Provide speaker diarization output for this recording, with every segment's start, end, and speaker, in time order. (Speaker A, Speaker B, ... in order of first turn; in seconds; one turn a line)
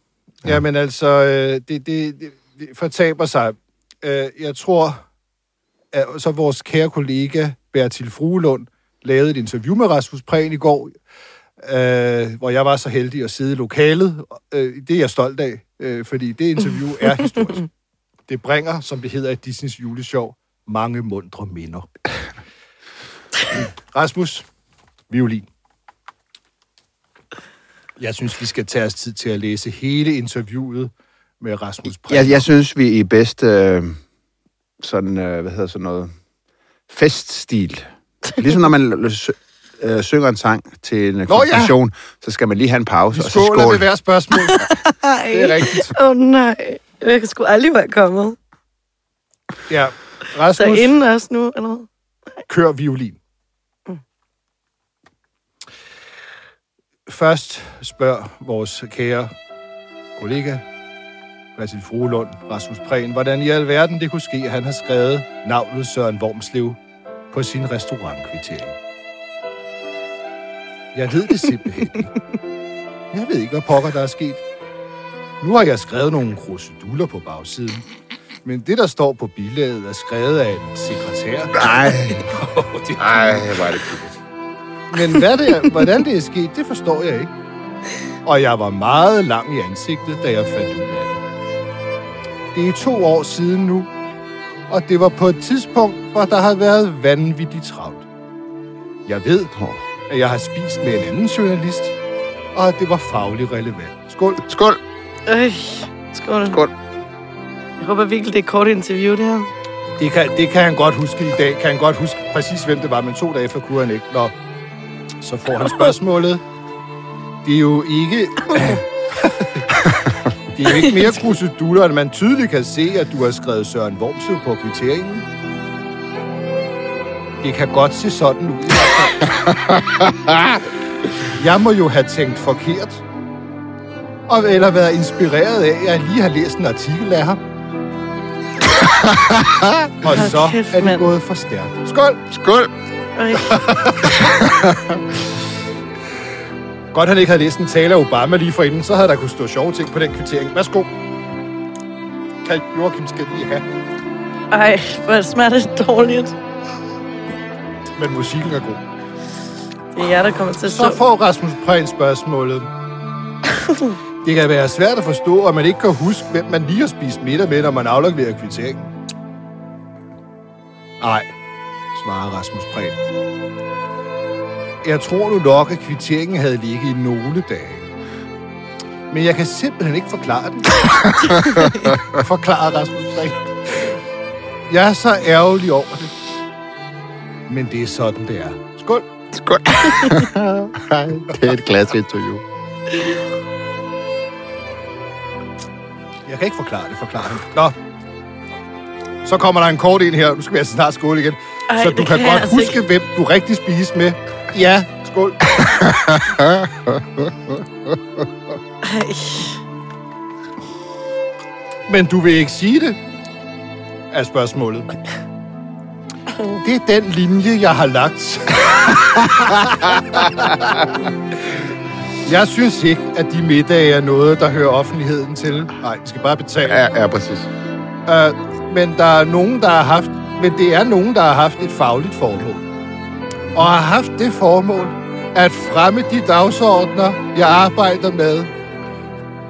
Speaker A: 0.4-5.0
Speaker A: 5.9-10.9
Speaker A: 11.6-17.7
Speaker A: 18.3-21.9
Speaker A: 23.5-24.4
Speaker A: 25.1-25.4
Speaker A: 28.0-32.5
Speaker B: 32.1-34.0
Speaker B: 34.8-36.1
Speaker B: 36.9-43.9
Speaker A: 41.3-41.7
Speaker A: 43.1-44.7
Speaker C: 44.5-48.4
Speaker A: 45.3-45.9
Speaker A: 49.7-50.9
Speaker C: 50.5-51.9
Speaker A: 52.5-53.2
Speaker A: 57.1-59.3
Speaker A: 60.2-60.6
Speaker A: 61.5-66.8
Speaker A: 67.3-68.8
Speaker A: 70.9-72.1
Speaker A: 73.1-74.4
Speaker A: 75.4-77.8
Speaker A: 78.4-83.6
Speaker B: 81.5-82.4
Speaker B: 83.0-84.2
Speaker A: 84.9-87.3
Speaker A: 88.2-91.2
Speaker A: 92.5-93.9
Speaker A: 94.7-98.1
Speaker A: 99.0-99.5
Speaker B: 99.5-99.8
Speaker A: 100.1-101.9
Speaker A: 102.5-104.4
Speaker B: 104.4-104.8
Speaker C: 105.2-106.6
Speaker C: 107.8-109.5
Speaker A: 110.0-114.3
Speaker A: 115.2-116.4
Speaker A: 117.4-119.6
Speaker A: 120.5-125.3
Speaker A: 127.4-129.3
Speaker B: 129.5-130.6
Speaker A: 131.2-133.0
Speaker A: 134.3-137.4
Speaker B: 138.7-139.9
Speaker A: 140.0-142.2
Speaker C: 140.1-141.1
Speaker B: 142.3-142.7
Speaker C: 143.2-143.6
Speaker A: 143.5-144.3
Speaker B: 144.0-145.1
Speaker A: 146.9-150.9
Speaker A: 152.4-153.7
Speaker C: 154.5-156.3
Speaker A: 158.0-158.8
Speaker C: 159.9-161.0
Speaker A: 160.6-162.7
Speaker A: 164.2-168.9
Speaker A: 171.0-171.3
Speaker A: 171.9-173.0
Speaker A: 174.8-177.9
Speaker A: 179.1-184.0
Speaker B: 181.0-182.1
Speaker A: 184.7-186.1
Speaker A: 187.5-189.1
Speaker B: 189.3-192.4
Speaker A: 196.2-197.8
Speaker A: 199.2-205.5
Speaker C: 201.7-202.8
Speaker B: 205.6-207.9
Speaker C: 208.8-209.6
Speaker A: 211.9-213.0
Speaker A: 214.1-214.9
Speaker A: 216.4-220.8
Speaker A: 222.2-226.8
Speaker B: 226.7-227.5
Speaker A: 228.1-232.7
Speaker A: 233.5-238.5